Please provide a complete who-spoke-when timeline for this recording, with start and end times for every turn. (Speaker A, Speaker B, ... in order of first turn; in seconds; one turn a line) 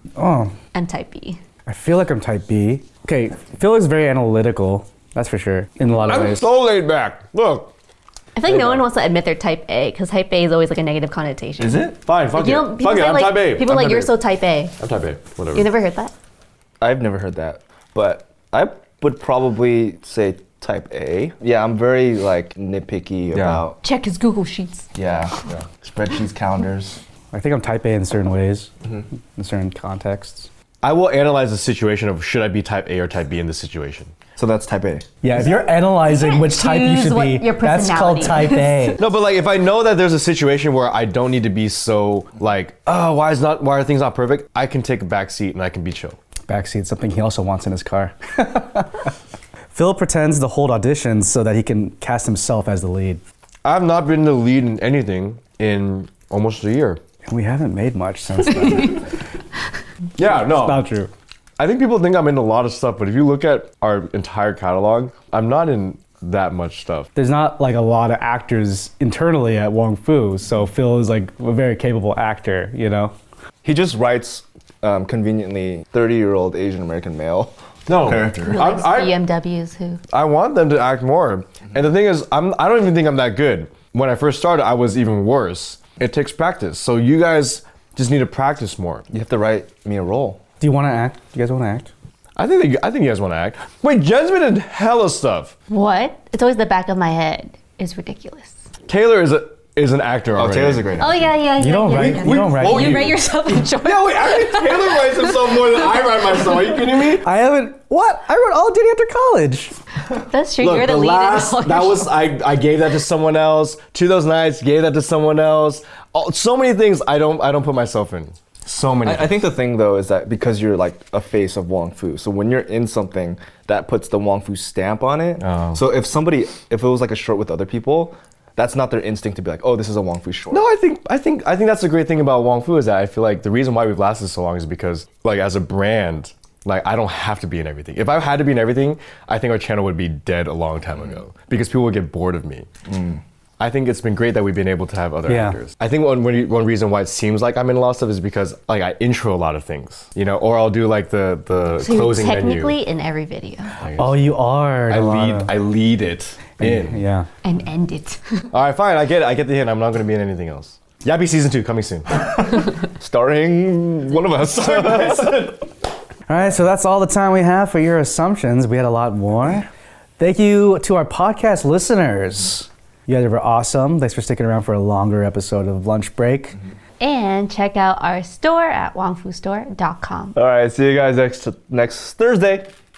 Speaker A: 0.1-0.5
Speaker B: 0.7-1.4
Speaker A: 1.6-6.5
Speaker C: 6.0-7.7
Speaker B: 8.3-14.7
Speaker C: 8.4-8.8
Speaker D: 11.6-12.0
Speaker C: 12.0-14.1
Speaker C: 14.8-15.7
Speaker B: 15.5-16.1
Speaker D: 16.8-23.8
Speaker C: 23.3-23.6
Speaker B: 23.8-24.9
Speaker D: 24.9-27.0
Speaker A: 27.3-28.7
Speaker A: 29.3-30.5
Speaker C: 30.8-34.1
Speaker D: 34.4-35.1
Speaker A: 35.2-39.0
Speaker B: 36.1-39.0
Speaker C: 39.0-46.2
Speaker A: 46.5-48.9
Speaker A: 49.7-53.2
Speaker C: 53.6-57.0
Speaker A: 57.3-59.0
Speaker C: 60.2-60.9
Speaker A: 60.4-61.1
Speaker C: 61.6-67.1
Speaker A: 67.1-73.1
Speaker D: 73.6-78.6
Speaker C: 77.9-79.2
Speaker B: 78.4-80.0
Speaker C: 80.1-89.0
Speaker D: 89.1-90.4
Speaker A: 90.6-91.9
Speaker C: 92.3-95.5
Speaker B: 95.7-98.5
Speaker C: 98.9-100.9
Speaker D: 100.3-101.3
Speaker B: 101.0-105.4
Speaker A: 101.6-103.1
Speaker C: 101.9-103.2
Speaker C: 103.8-107.2
Speaker A: 107.2-109.8
Speaker B: 110.2-112.1
Speaker C: 110.6-119.5
Speaker D: 119.0-130.6
Speaker C: 125.4-125.8
Speaker C: 130.5-142.7
Speaker D: 142.9-143.2
Speaker C: 143.6-152.8
Speaker A: 145.3-145.6
Speaker B: 151.8-153.8
Speaker C: 153.8-157.0
Speaker A: 153.9-155.5
Speaker A: 156.6-157.3
Speaker B: 157.4-158.5
Speaker C: 158.5-162.6
Speaker D: 163.0-165.5
Speaker C: 164.6-165.6
Speaker A: 166.3-169.7
Speaker A: 170.2-176.6
Speaker B: 177.0-180.3
Speaker D: 180.3-182.7